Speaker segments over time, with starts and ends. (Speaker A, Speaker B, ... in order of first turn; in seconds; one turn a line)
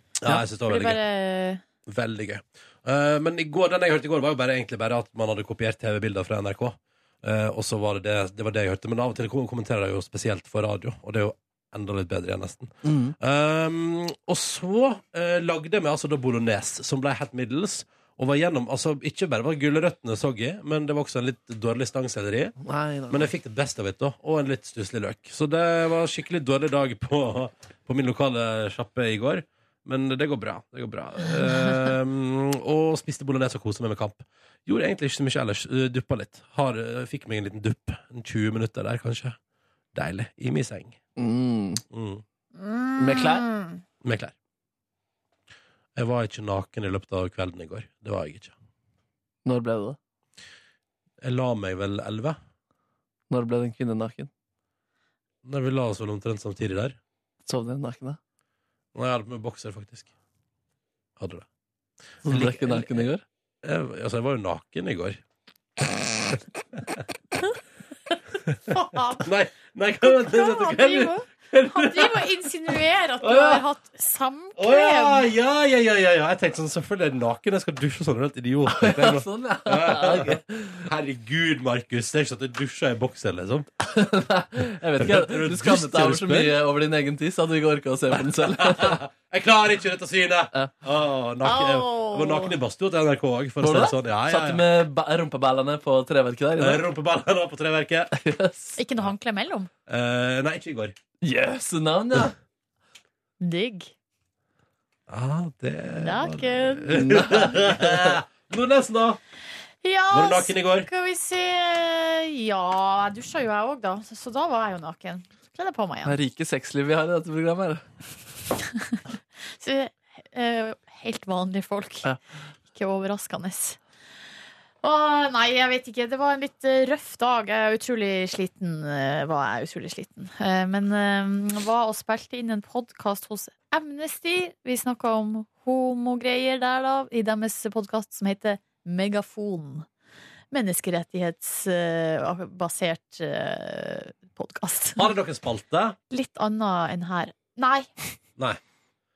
Speaker A: 0.2-1.0
Speaker B: 0.3-1.6
Speaker A: 1.9-22.6
Speaker C: 12.8-13.2
Speaker C: 22.6-23.3
Speaker A: 23.1-39.4
Speaker A: 39.9-41.0
Speaker C: 41.2-41.8
Speaker A: 41.9-42.2
Speaker B: 42.6-43.8
Speaker C: 43.0-43.5
Speaker A: 44.0-44.3
Speaker A: 46.0-48.5
Speaker C: 49.5-50.0
Speaker A: 51.2-52.4
Speaker C: 53.3-54.3
Speaker A: 55.4-57.0
Speaker C: 57.5-58.2
Speaker A: 59.0-60.1
Speaker A: 61.2-61.5
Speaker A: 62.2-63.0
Speaker C: 62.2-63.2
Speaker A: 63.6-65.2
Speaker B: 68.7-69.2
Speaker A: 69.2-72.3
Speaker B: 70.0-75.3
Speaker A: 73.2-73.6
Speaker A: 74.6-83.7
Speaker C: 78.7-80.9
Speaker C: 83.8-89.0
Speaker A: 85.0-86.6
Speaker A: 88.4-94.6
Speaker B: 91.4-92.5
Speaker C: 93.6-96.8
Speaker A: 96.6-98.1
Speaker C: 98.2-98.8
Speaker B: 98.8-99.7
Speaker A: 99.9-101.0
Speaker C: 101.2-102.3
Speaker B: 103.4-103.9
Speaker A: 105.1-109.2
Speaker B: 106.0-107.5
Speaker C: 107.0-108.2
Speaker B: 109.8-116.2
Speaker A: 110.1-110.9
Speaker C: 116.1-117.8
Speaker B: 118.7-119.0
Speaker B: 119.6-122.1
Speaker B: 122.7-123.8
Speaker B: 124.8-139.9
Speaker B: 140.5-145.1
Speaker A: 145.0-146.0
Speaker B: 146.1-148.1